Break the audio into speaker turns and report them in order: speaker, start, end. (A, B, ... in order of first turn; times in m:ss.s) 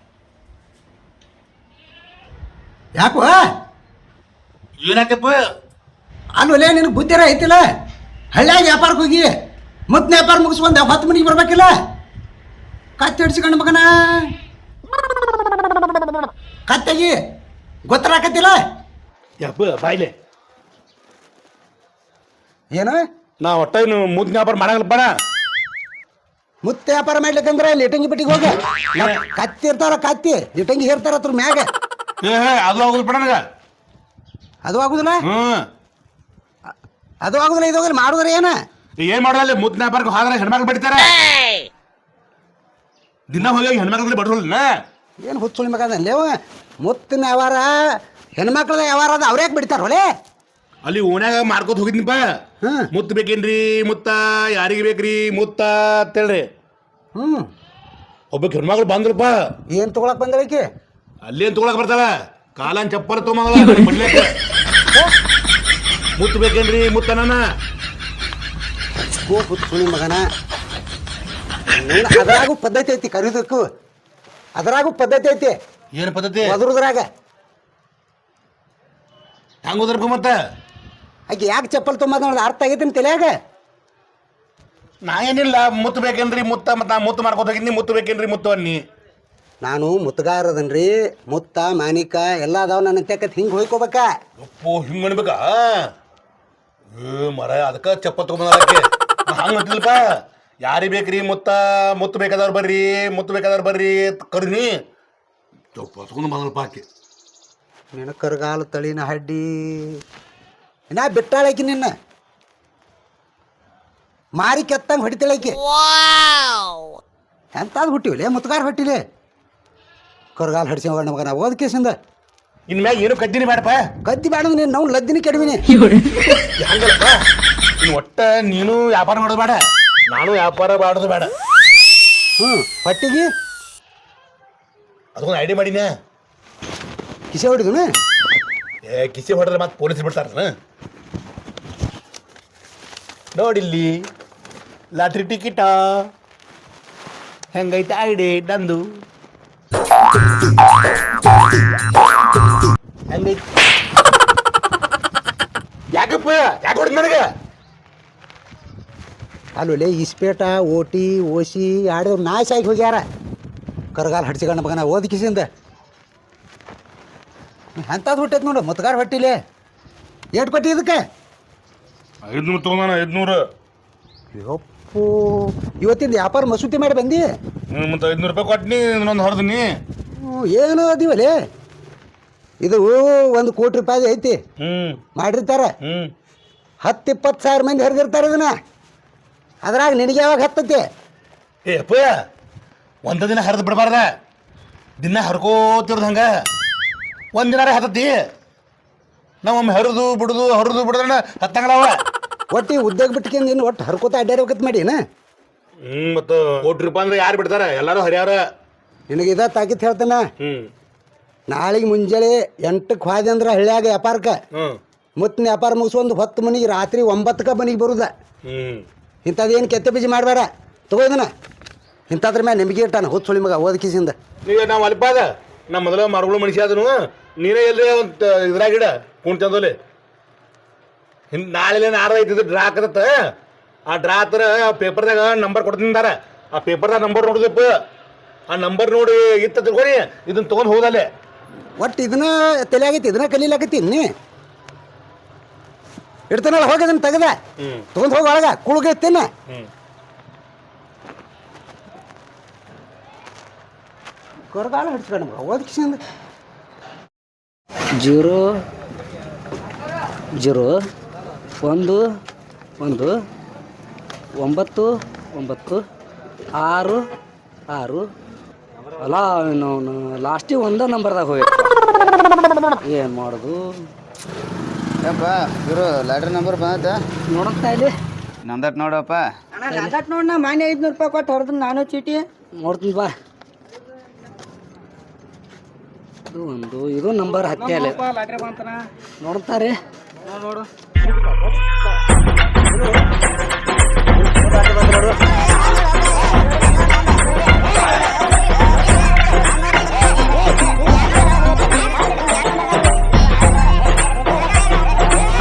0:03.0-0:03.4 A
0:04.8-0:05.4 B
0:06.4-0:07.6 A
0:08.3-0:09.3 A
0:09.9-0:11.7 A
0:13.0-0:14.3 A
0:16.7-0:17.2 A
0:17.9-0:18.6 A
0:19.4-0:20.1 B
0:22.7-0:23.0 A
0:23.4-0:25.1 B
0:26.6-0:31.7 A
0:29.0-0:29.2 B
0:32.2-0:33.4 B
0:34.6-0:35.2 A
0:35.2-0:35.6 B
0:37.2-0:38.5 A
0:39.0-0:41.2 B
0:43.3-0:44.7 B
0:45.2-0:50.1 A
0:50.8-0:52.2 B
0:52.6-0:52.9 A
0:52.9-0:56.5 B
0:57.2-0:57.5 A
0:58.3-0:59.3 B
0:59.7-1:00.6 A
1:01.3-1:04.3 B
1:06.2-1:07.4 B
1:09.2-1:10.2 A
1:11.8-1:13.6 A
1:14.6-1:15.5 A
1:16.0-1:16.5 B
1:16.4-1:17.0 A
1:19.6-1:20.3 B
1:21.3-1:23.3 A
1:25.1-1:28.8 B
1:29.6-1:34.1 A
1:34.4-1:35.8 B
1:37.0-1:40.0 B
1:40.6-1:44.7 B
1:45.8-1:46.9 B
1:47.9-1:50.0 A
1:50.9-1:51.9 A
1:54.4-1:55.6 A
1:57.6-1:59.0 A
2:00.4-2:02.0 A
2:02.7-2:03.8 B
2:04.0-2:05.8 A
2:06.2-2:07.2 B
2:07.8-2:11.3 B
2:12.4-2:13.3 A
2:15.2-2:15.9 B
2:17.3-2:17.9 A
2:18.9-2:20.5 B
2:23.4-2:23.9 B
2:25.0-2:25.8 B
2:27.5-2:28.8 B
2:33.1-2:33.4 B
2:35.9-2:37.3 B
2:39.6-2:43.0 A
2:43.9-2:45.5 A
2:47.8-2:49.4 A
2:50.4-2:51.0 A
2:52.3-2:53.4 B
2:54.3-2:57.2 A
2:57.7-2:59.7 B
3:00.2-3:01.3 A
3:02.6-3:04.4 A
3:04.6-3:05.0 B
3:05.2-3:05.7 A
3:05.8-3:06.1 B
3:06.8-3:08.5 A
3:09.6-3:10.8 A
3:11.7-3:12.1 B
3:13.0-3:14.0 B
3:15.0-3:16.3 B
3:17.3-3:18.1 B
3:19.4-3:22.0 B
3:22.5-3:25.0 A
3:25.9-3:28.4 B
3:29.1-3:30.2 A
3:30.4-3:30.7 B
3:31.5-3:34.4 A
3:35.2-3:38.1 A
3:38.4-3:38.8 B
3:39.3-3:41.3 A
3:42.1-3:44.2 A
3:44.5-3:49.8 B
3:51.3-3:53.1 B
3:53.9-3:57.7 B
3:58.5-4:01.1 B
4:01.8-4:04.1 A
4:06.3-4:07.4 A
4:07.6-4:07.9 B
4:08.0-4:09.3 A
4:14.5-4:16.0 A
4:18.0-4:18.6 C
4:20.4-4:20.8 C
4:21.6-4:22.1 C
4:22.8-4:23.2 C
4:24.4-4:25.8 C
4:26.6-4:27.0 C
4:27.7-4:28.1 C
4:29.0-4:31.9 C
4:32.7-4:33.9 C
4:35.0-4:37.0 D
4:37.3-4:37.9 C
4:38.4-4:39.3 D
4:39.6-4:42.3 E
4:39.7-4:40.0 C
4:42.6-4:43.1 C
4:46.3-4:48.0 C
4:49.2-4:49.8 C
5:02.0-5:02.6 E